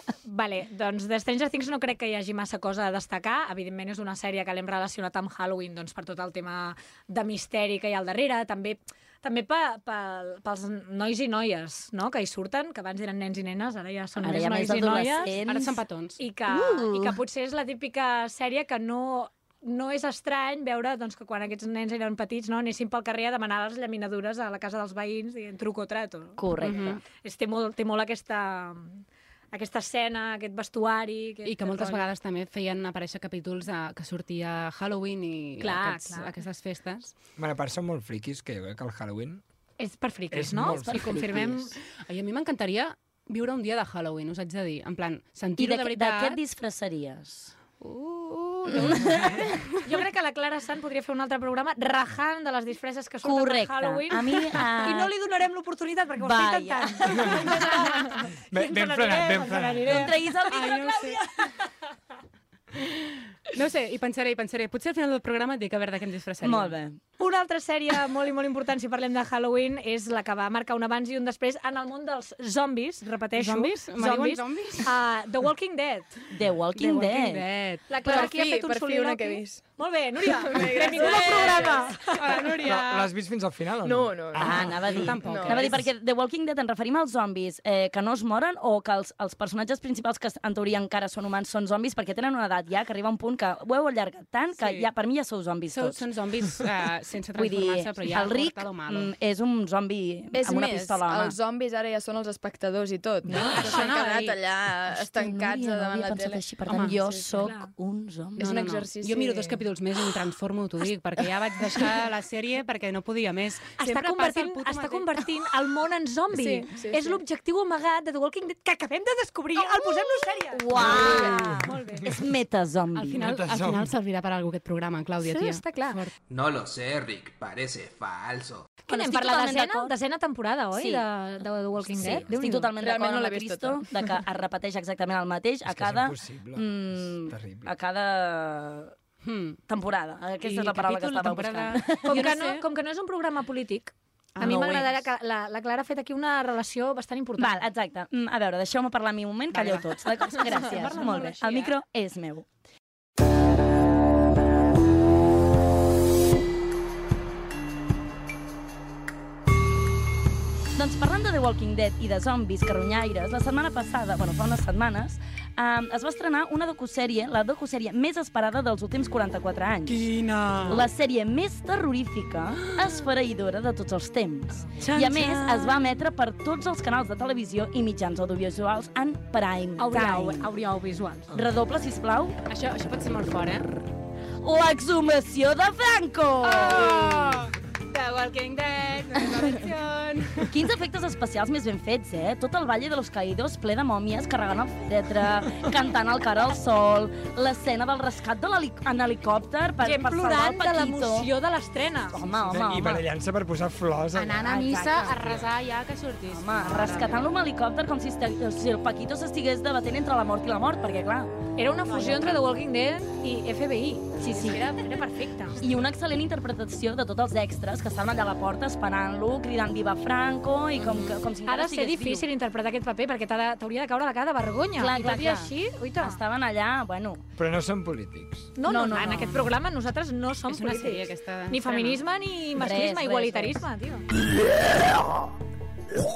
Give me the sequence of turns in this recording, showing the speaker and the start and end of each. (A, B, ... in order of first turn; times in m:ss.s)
0:00.2-0:15.3 A
0:14.2-0:15.8 B
0:15.5-0:16.2 C
0:16.2-0:26.4 A
0:16.5-0:17.2 B
0:26.4-0:27.0 B
0:26.6-0:27.0 C
0:27.2-0:32.1 A
0:31.4-0:37.1 C
0:35.6-0:36.3 A
0:37.4-0:39.4 D
0:39.8-0:41.8 A
0:40.3-0:41.4 D
0:40.6-0:41.7 B
0:41.9-0:46.4 C
0:45.6-0:47.5 B
0:47.8-0:49.7 C
0:48.7-0:49.5 B
0:49.8-1:01.0 A
0:53.2-0:55.1 B
0:56.2-0:57.9 B
0:58.5-1:00.2 D
0:59.9-1:01.1 B
1:00.5-1:01.2 C
1:02.8-1:06.8 C
1:06.4-1:07.0 B
1:07.2-1:16.1 A
1:13.4-1:14.9 C
1:16.3-1:17.4 B
1:16.8-1:17.9 C
1:17.9-1:22.2 A
1:18.0-1:22.4 E
1:21.0-1:23.1 C
1:22.6-1:25.0 D
1:23.8-1:25.8 E
1:24.4-1:36.0 B
1:24.5-1:25.8 C
1:34.6-1:34.9 C
1:35.7-1:39.1 C
1:37.4-1:41.4 B
1:40.3-1:47.5 E
1:43.4-1:44.4 C
1:43.4-1:43.9 B
1:44.9-1:48.5 B
1:46.7-1:47.0 C
1:47.4-1:47.7 A
1:48.4-1:49.7 E
1:48.4-1:55.3 C
1:53.8-2:02.1 A
1:56.3-1:57.2 E
2:00.5-2:01.7 E
2:00.6-2:03.2 B
2:00.8-2:01.2 C
2:03.0-2:06.1 C
2:03.1-2:03.9 D
2:05.2-2:06.0 A
2:06.3-2:08.8 F
2:08.9-2:12.7 A
2:08.9-2:09.9 B
2:10.7-2:11.0 B
2:12.0-2:18.9 B
2:12.8-2:14.2 E
2:15.7-2:17.7 D
2:19.2-2:19.6 C
2:19.7-2:22.4 B
2:20.4-2:22.6 C
2:22.0-2:27.6 A
2:24.4-2:24.7 C
2:24.4-2:25.0 B
2:27.4-2:32.5 B
2:29.5-2:31.8 C
2:40.8-2:50.1 B
2:50.1-2:50.7 C
2:50.7-3:00.5 B
2:54.8-2:55.8 A
2:59.8-3:01.3 A
3:01.3-3:02.4 B
3:02.5-3:03.7 C
3:04.4-3:07.4 B
3:06.4-3:10.5 C
3:10.5-3:21.3 B
3:19.8-3:22.2 A
3:22.1-3:23.0 B
3:22.5-3:25.5 D
3:24.1-3:27.3 C
3:24.3-3:25.2 B
3:26.3-3:31.3 B
3:31.6-3:35.6 A
3:31.9-3:32.4 B
3:34.2-3:34.7 B
3:35.6-3:42.3 B
3:40.8-3:41.2 C
3:41.5-3:46.2 A
3:44.8-3:47.2 B
3:47.4-3:48.5 D
3:48.6-3:54.1 A
3:48.6-3:49.4 B
3:50.5-3:52.0 C
3:52.5-3:53.6 B